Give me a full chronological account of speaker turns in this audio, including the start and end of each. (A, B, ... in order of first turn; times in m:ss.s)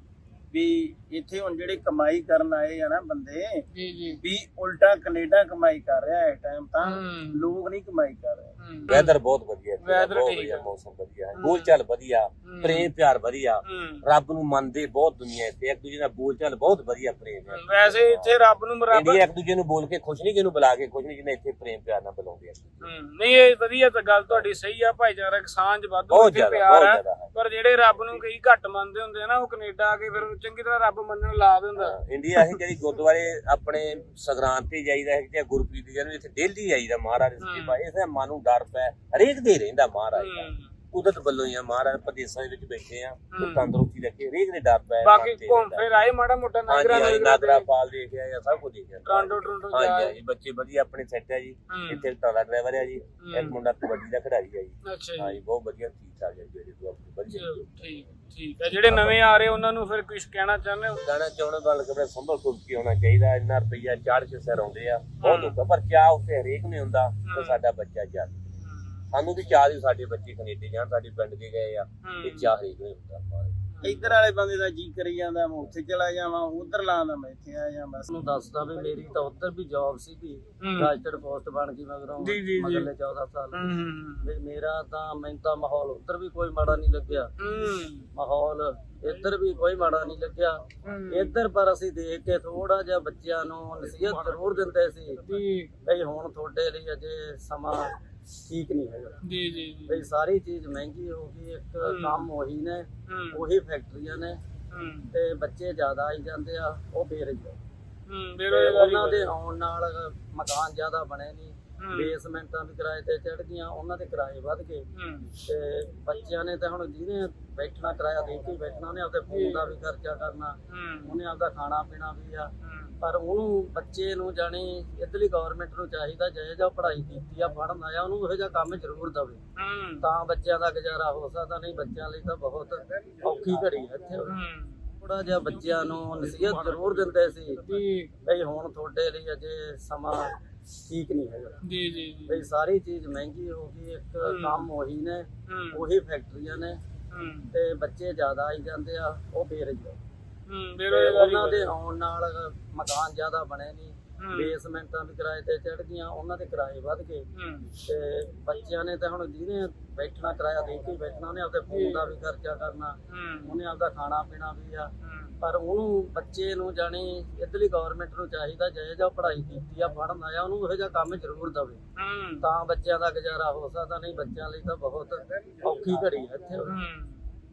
0:00.5-0:03.6 A
0:03.7-0:04.2 B
0:04.2-0:08.5 A
0:06.8-0:07.5 B
0:08.6-0:09.2 B
0:08.9-0:18.3 C
0:09.8-0:10.6 B
0:11.4-0:11.7 B
0:12.4-0:12.9 B
0:13.6-0:14.0 B
0:17.5-0:19.2 B
0:18.9-0:22.8 C
0:22.8-0:32.6 B
0:26.1-0:27.3 C
0:31.8-0:45.8 C
0:37.4-0:37.8 B
0:40.1-0:40.7 B
0:43.3-0:43.7 B
0:45.0-0:47.6 B
0:46.7-0:57.8 C
0:49.0-0:50.1 B
0:51.7-0:52.0 B
0:53.2-0:53.6 B
0:54.8-0:55.4 B
0:57.3-1:01.0 B
0:58.9-0:59.1 C
1:01.0-1:08.5 C
1:05.2-1:05.5 B
1:07.2-1:07.6 B
1:08.6-1:09.0 B
1:09.1-1:13.5 C
1:12.0-1:12.5 B
1:13.7-1:14.1 B
1:13.9-1:18.0 A
1:18.1-1:23.6 D
1:20.6-1:20.9 B
1:22.2-1:22.9 B
1:23.5-1:24.3 B
1:24.2-1:27.3 D
1:27.4-1:28.1 B
1:28.1-1:35.2 D
1:30.8-1:31.4 B
1:35.2-1:35.7 B
1:35.8-1:39.2 D
1:39.2-1:40.0 B
1:39.9-1:44.4 D
1:41.8-1:42.3 B
1:43.1-1:43.4 B
1:44.7-1:45.1 B
1:45.1-1:47.6 D
1:48.1-1:49.3 B
1:48.5-1:54.9 D
1:51.8-1:52.1 B
1:54.9-1:55.3 B
1:55.4-2:09.4 D
1:59.3-1:59.7 B
2:00.7-2:01.2 B
2:02.6-2:03.0 B
2:09.6-2:10.1 B
2:10.0-2:14.4 D
2:14.2-2:14.8 B
2:15.0-2:17.6 D
2:16.4-2:16.7 B
2:17.6-2:18.1 B
2:18.2-2:21.6 D
2:21.6-2:22.4 B
2:22.3-2:26.8 D
2:24.2-2:24.7 B
2:25.5-2:25.8 B
2:27.1-2:27.5 B
2:27.5-2:30.0 D
2:30.5-2:31.7 B
2:30.9-2:51.8 D
2:34.2-2:34.6 B
2:37.3-2:37.7 B
2:41.7-2:42.1 B
2:43.1-2:43.6 B
2:45.0-2:45.4 B
2:52.0-2:52.4 B
2:52.4-2:56.7 D
2:56.6-2:57.1 B